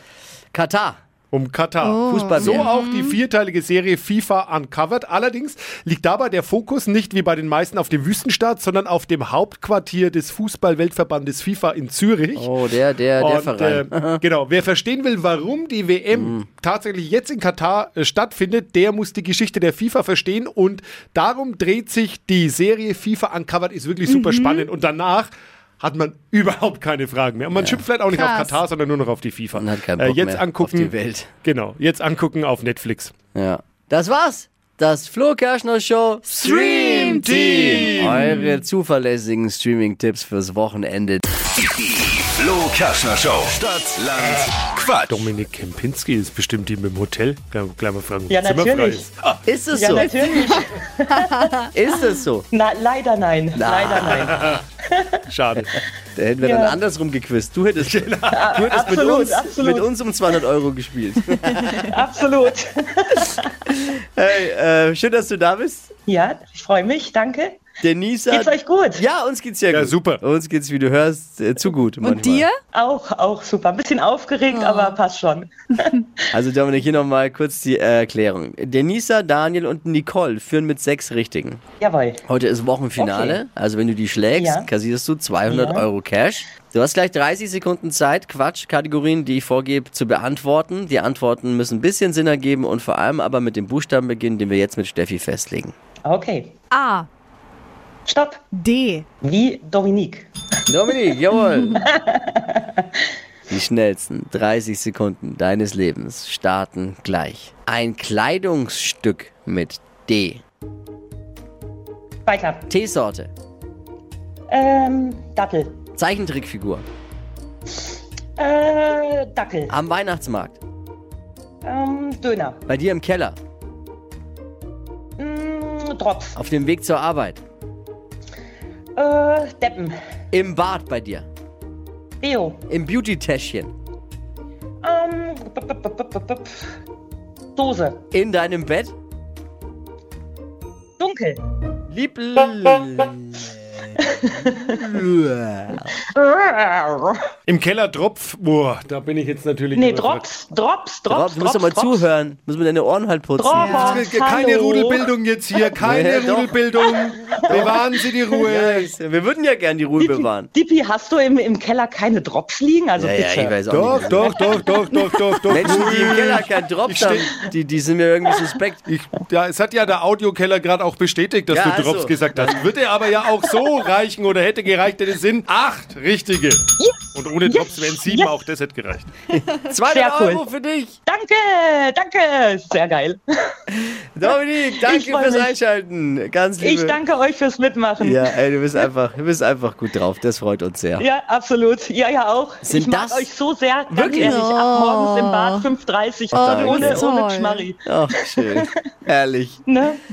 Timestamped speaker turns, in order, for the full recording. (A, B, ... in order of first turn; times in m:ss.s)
0:00.5-0:01.0 A
0:01.3-0:12.5 B
0:01.8-0:03.2 C
0:02.0-0:02.7 A
0:12.4-0:14.2 A
0:13.2-0:30.9 B
0:16.1-0:16.4 A
0:24.1-0:24.7 C
0:27.5-0:27.8 A
0:28.1-0:28.6 C
0:29.5-0:31.3 A
0:31.4-0:33.1 B
0:33.3-0:41.2 A
0:36.4-0:38.5 C
0:36.5-0:38.4 B
0:41.6-0:45.3 D
0:45.1-0:49.4 B
0:48.3-0:49.1 E
0:49.4-0:50.2 A
0:49.7-0:51.5 E
0:51.3-0:51.6 C
0:51.7-0:52.5 A
0:52.5-0:55.2 E
0:53.5-0:54.5 A
0:54.3-0:54.6 B
0:55.3-0:55.7 B
0:55.6-1:01.9 A
0:56.4-0:56.8 E
0:57.8-0:58.6 B
0:58.3-0:59.9 E
1:01.8-1:03.7 E
1:03.7-1:05.9 A
1:06.1-1:07.6 E
1:07.8-1:12.5 A
1:08.3-1:09.0 E
1:09.7-1:10.2 B
1:12.0-1:12.6 C
1:12.7-1:16.1 E
1:14.6-1:15.0 C
1:16.3-1:21.6 A
1:21.8-1:22.2 E
1:22.2-1:35.7 A
1:23.0-1:23.4 E
1:24.3-1:24.7 E
1:25.5-1:25.8 E
1:36.0-1:36.5 E
1:36.7-1:37.1 C
1:38.0-1:38.4 E
1:38.5-1:39.0 C
1:39.2-1:40.3 E
1:40.7-1:41.9 A
1:41.7-1:43.0 E
1:43.5-1:50.4 A
1:52.3-1:52.6 E
1:52.7-1:53.3 A
1:54.5-1:55.8 E
1:56.0-1:56.8 A
1:58.4-1:59.7 E
1:59.7-2:00.6 A
2:01.6-2:02.6 E
2:02.7-2:03.4 A
2:05.2-2:06.4 E
2:06.3-2:07.4 A
2:09.0-2:10.0 E
2:10.3-2:11.3 A
2:12.2-2:12.6 E
2:12.7-2:13.7 A
2:14.8-2:16.7 E
2:17.6-2:18.0 E
2:18.1-2:18.9 A
2:21.0-2:21.4 E
2:21.9-2:23.9 A
2:24.0-2:24.9 E
2:24.9-2:25.9 A
2:25.9-2:27.3 E
2:27.5-2:30.2 B
2:29.7-2:32.0 E
2:31.1-2:34.0 A
2:33.4-2:35.0 E
2:33.5-2:34.0 C
2:33.8-2:38.9 B
2:35.8-2:36.6 A
2:36.8-2:38.4 E
2:37.5-2:37.8 A
2:38.4-2:40.5 A
2:40.0-2:43.6 E
2:43.0-2:44.7 A
2:43.6-2:47.3 B
2:45.5-2:48.8 A
2:48.8-2:56.6 B
2:51.5-2:52.7 A
2:56.8-2:58.4 E
2:57.1-2:59.1 B
2:59.4-3:01.0 A
2:59.9-3:00.4 E
3:01.0-3:03.5 E
3:04.2-3:07.0 A
3:04.8-3:05.5 E
3:06.6-3:08.3 E
3:08.0-3:11.1 A
3:11.0-3:17.8 E
3:12.6-3:13.3 A
3:13.9-3:14.4 A
3:13.9-3:15.6 C
3:16.3-3:17.1 A
3:16.3-3:17.7 C
3:17.8-3:19.6 A
3:18.3-3:18.7 E
3:19.7-3:20.0 E